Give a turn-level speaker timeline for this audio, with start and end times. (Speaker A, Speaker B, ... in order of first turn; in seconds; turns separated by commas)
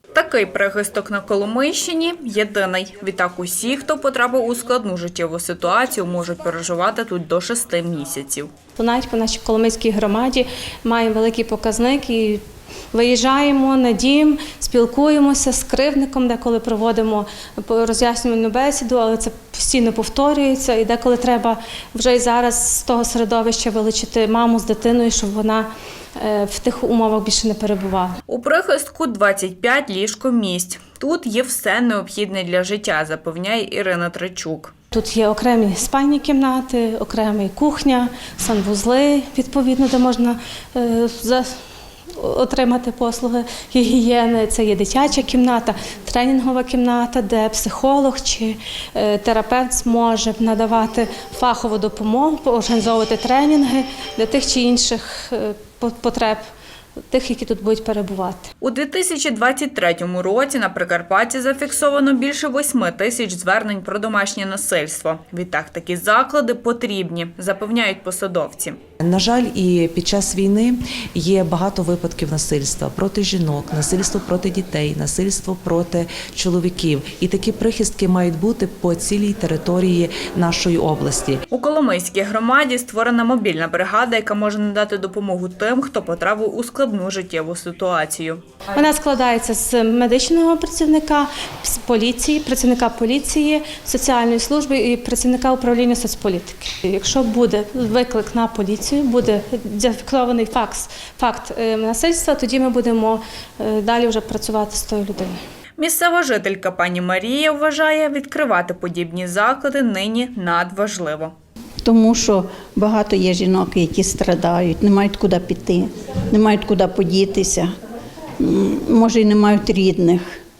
Speaker A: 0.1-8.5, Speaker B: 8.7-28.2, Speaker A: 28.3-34.7, Speaker B: 34.9-41.5, Speaker B: 42.1-56.4, Speaker B: 57.1-58.5, Speaker A: 58.6-68.8, Speaker C: 69.0-81.4, Speaker A: 81.5-88.4, Speaker B: 88.7-105.4, Speaker A: 105.8-111.3, Speaker D: 111.8-117.7, Speaker D: 118.4-120.3